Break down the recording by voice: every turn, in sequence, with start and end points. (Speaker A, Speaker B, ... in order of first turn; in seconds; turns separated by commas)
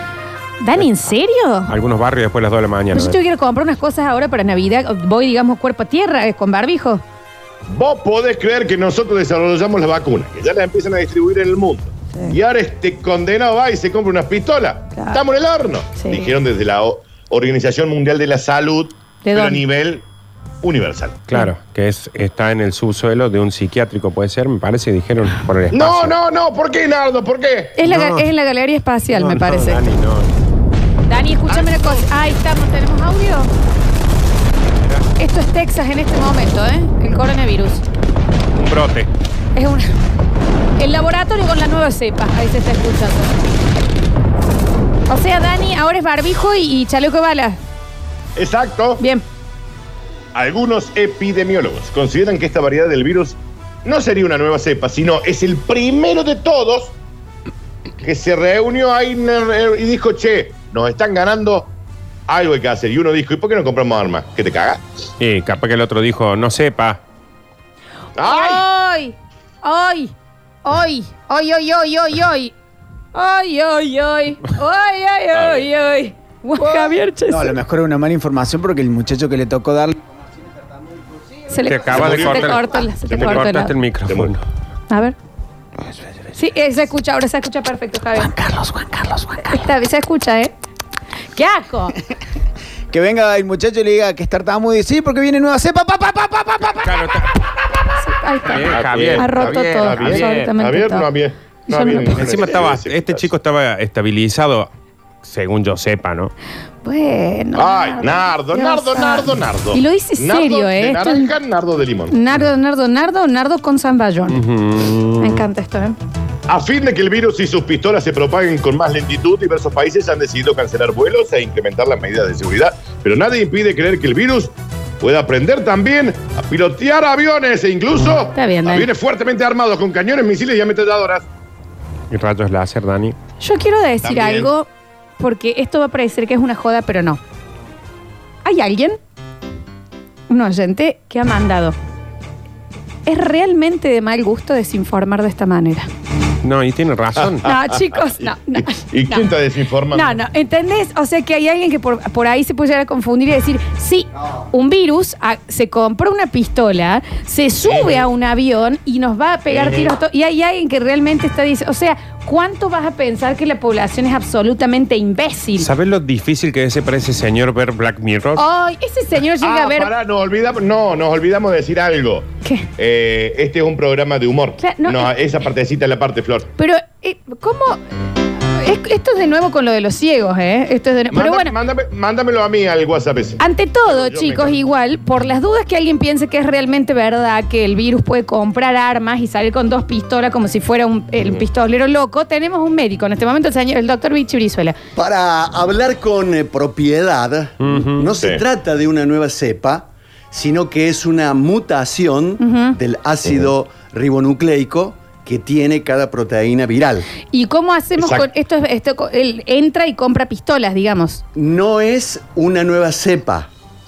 Speaker A: 0.6-1.7, Speaker B: 1.7-3.2, Speaker A: 2.9-7.0, Speaker C: 7.7-20.1, Speaker A: 14.9-15.2, Speaker A: 15.9-16.3, Speaker A: 19.2-19.6, Speaker C: 20.6-21.2, Speaker B: 21.3-26.1, Speaker C: 25.7-27.8, Speaker A: 27.8-29.8, Speaker B: 27.9-28.3, Speaker B: 29.1-30.3, Speaker A: 31.1-33.5, Speaker B: 31.5-32.0, Speaker B: 34.7-35.1, Speaker A: 35.2-37.8, Speaker B: 38.5-39.1, Speaker A: 39.5-39.9, Speaker A: 40.8-43.5, Speaker A: 45.1-47.6, Speaker C: 48.3-49.0, Speaker A: 49.0-49.2, Speaker C: 50.3-56.9, Speaker C: 58.0-61.7, Speaker C: 62.3-64.8, Speaker B: 65.2-67.0, Speaker C: 68.2-68.6, Speaker A: 68.2-70.1, Speaker A: 70.6-72.5, Speaker A: 73.1-77.6, Speaker C: 75.3-75.7, Speaker D: 76.6-80.0, Speaker A: 81.5-83.8, Speaker B: 81.7-84.4, Speaker C: 81.9-84.3, Speaker A: 84.9-85.2, Speaker A: 86.3-88.3, Speaker D: 88.1-89.7, Speaker A: 89.5-90.5, Speaker A: 91.3-92.0, Speaker D: 92.9-97.2, Speaker B: 96.8-97.4, Speaker A: 98.0-101.1, Speaker B: 98.4-100.5, Speaker C: 98.7-103.3, Speaker A: 101.7-102.4, Speaker B: 102.1-104.7, Speaker B: 105.2-106.3, Speaker A: 106.8-111.3, Speaker C: 107.5-112.1, Speaker A: 112.1-114.4, Speaker B: 114.3-115.4, Speaker A: 115.2-116.0, Speaker C: 116.5-131.3, Speaker A: 128.3-128.9, Speaker B: 132.1-133.2, Speaker A: 133.4-137.2, Speaker C: 134.0-134.5, Speaker A: 138.4-139.0, Speaker A: 140.3-141.8, Speaker A: 143.1-145.9, Speaker B: 146.4-147.5, Speaker C: 147.2-150.2, Speaker A: 147.4-149.3, Speaker A: 149.9-165.7, Speaker C: 157.6-158.0, Speaker C: 159.5-159.9, Speaker B: 165.6-168.4, Speaker A: 168.4-169.9, Speaker C: 169.4-176.5, Speaker A: 174.6-175.1, Speaker A: 176.6-177.8, Speaker A: 178.6-181.5, Speaker C: 181.1-184.6, Speaker A: 183.4-194.8, Speaker E: 194.9-207.1, Speaker B: 197.6-198.1, Speaker C: 198.2-198.4, Speaker A: 202.4-202.8, Speaker C: 203.2-203.5, Speaker A: 207.3-211.2, Speaker C: 208.0-208.3, Speaker E: 211.3-213.5